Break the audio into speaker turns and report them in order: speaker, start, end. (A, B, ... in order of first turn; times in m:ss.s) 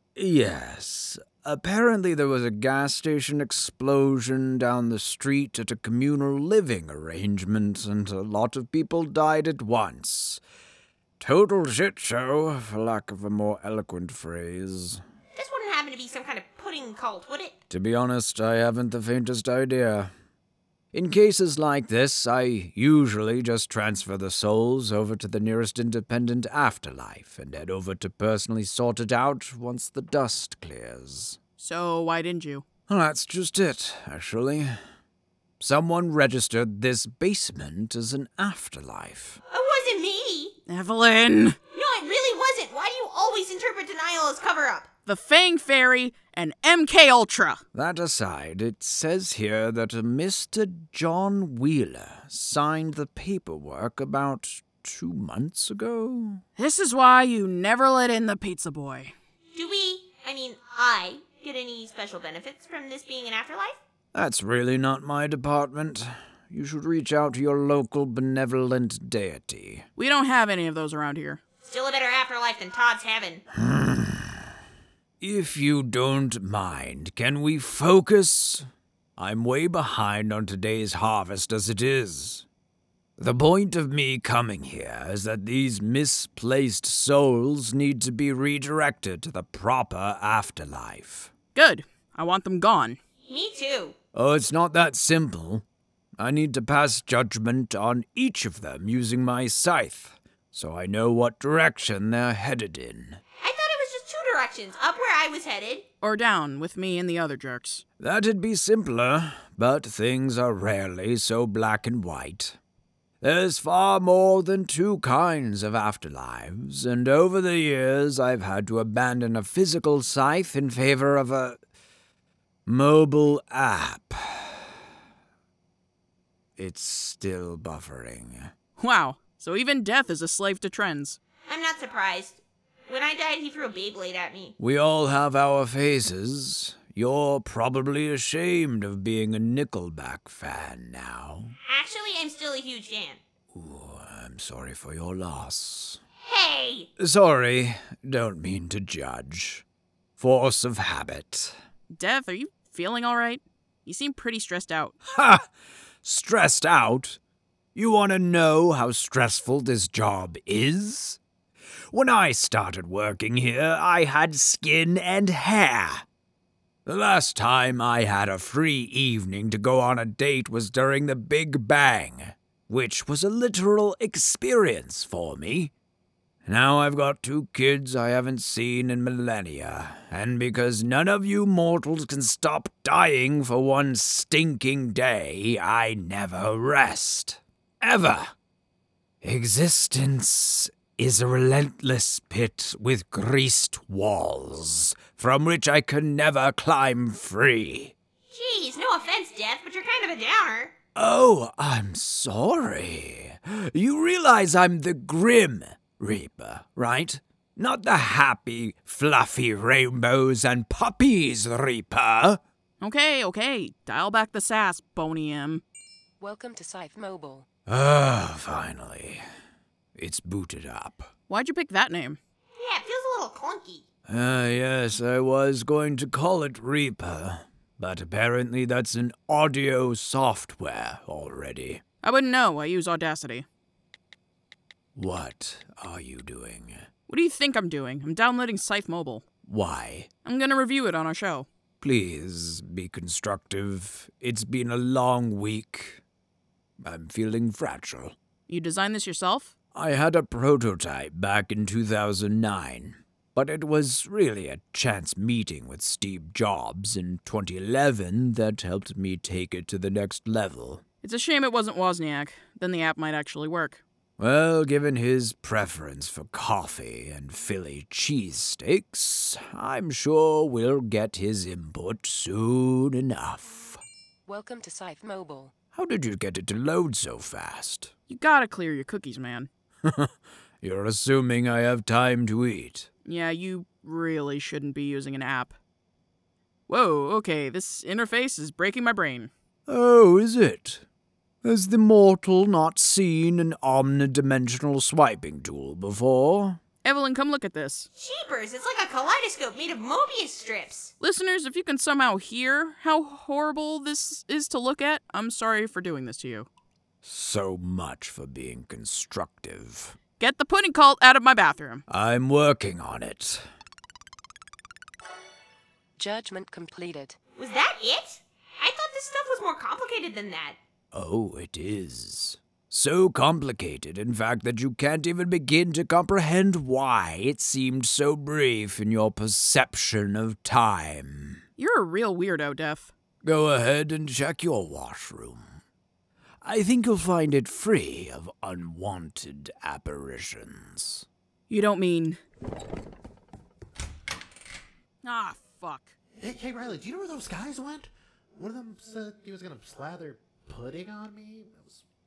0:00.2-0:10.4 A
0:11.2-0:15.0 A
0:15.4-0:17.5 B
0:17.7-0:20.1 A
0:20.9-0:31.4 A
0:31.6-0:32.6 C
0:32.9-0:34.8 A
0:35.6-0:39.4 A
0:39.5-0:40.6 B
0:40.7-0:41.6 C
0:41.7-0:44.9 B
0:45.1-0:47.6 C
0:47.7-0:56.4 A
0:56.6-0:59.1 C
0:59.5-1:03.8 B
1:04.1-1:09.9 A
1:10.0-1:11.4 C
1:11.6-1:13.4 B
1:13.6-1:14.4 A
1:15.2-1:18.7 A
1:19.2-1:22.5 A
1:23.2-1:31.3 A
1:31.6-1:33.0 C
1:33.3-1:34.0 B
1:34.1-1:35.6 A
1:36.2-1:43.2 A
1:43.4-1:45.8 B
1:46.0-1:47.8 C
1:48.0-1:52.6 A
1:53.2-2:01.6 A
2:02.7-2:04.7 A
2:06.6-2:08.5 A
2:08.8-2:11.2 C
2:11.5-2:14.6 B
2:14.6-2:21.6 A
2:21.7-2:23.2 B
2:23.5-2:26.0 A
2:26.2-2:26.9 B
2:27.0-2:29.6 A
2:30.2-2:31.6 A
2:31.9-2:35.0 C
2:35.1-2:35.5 A
2:36.0-2:37.2 A
2:37.8-2:41.2 A
2:41.9-2:46.0 A
2:46.9-2:55.7 A
2:56.4-3:08.3 A
3:09.2-3:17.9 A
3:18.3-3:20.7 B
3:21.0-3:32.4 A
3:32.8-3:35.6 C
3:36.2-3:37.5 D
3:37.7-3:39.2 A
3:40.0-3:41.1 A
3:41.3-3:42.2 C
3:42.6-3:43.8 B
3:44.1-3:51.8 A
3:52.0-3:53.5 C
3:55.0-3:56.9 A
3:57.1-3:59.2 C
3:59.5-4:00.1 A
4:00.2-4:01.5 C
4:01.8-4:06.0 A
4:06.8-4:08.2 A
4:08.5-4:09.5 C
4:09.7-4:20.8 A
4:21.0-4:23.8 C
4:24.2-4:33.8 A
4:34.3-4:35.5 D
4:35.7-4:37.9 A
4:38.1-4:39.5 C
4:39.8-4:40.1 A
4:40.6-4:42.9 A
4:43.0-4:45.6 C
4:46.7-4:49.3 C
4:49.7-4:50.8 A
4:51.4-4:56.6 A
4:56.8-4:57.9 C
4:58.0-5:00.9 B
5:01.0-5:06.5 C
5:07.0-5:10.0 A
5:10.2-5:11.8 C
5:11.9-5:13.4 A
5:16.0-5:17.2 D
5:17.4-5:20.6 B
5:20.9-5:31.4 A
5:31.6-5:32.9 C
5:33.2-5:35.6 A
5:36.4-5:41.1 A
5:41.5-5:42.2 C
5:45.0-5:46.0 C
5:46.2-5:51.8 E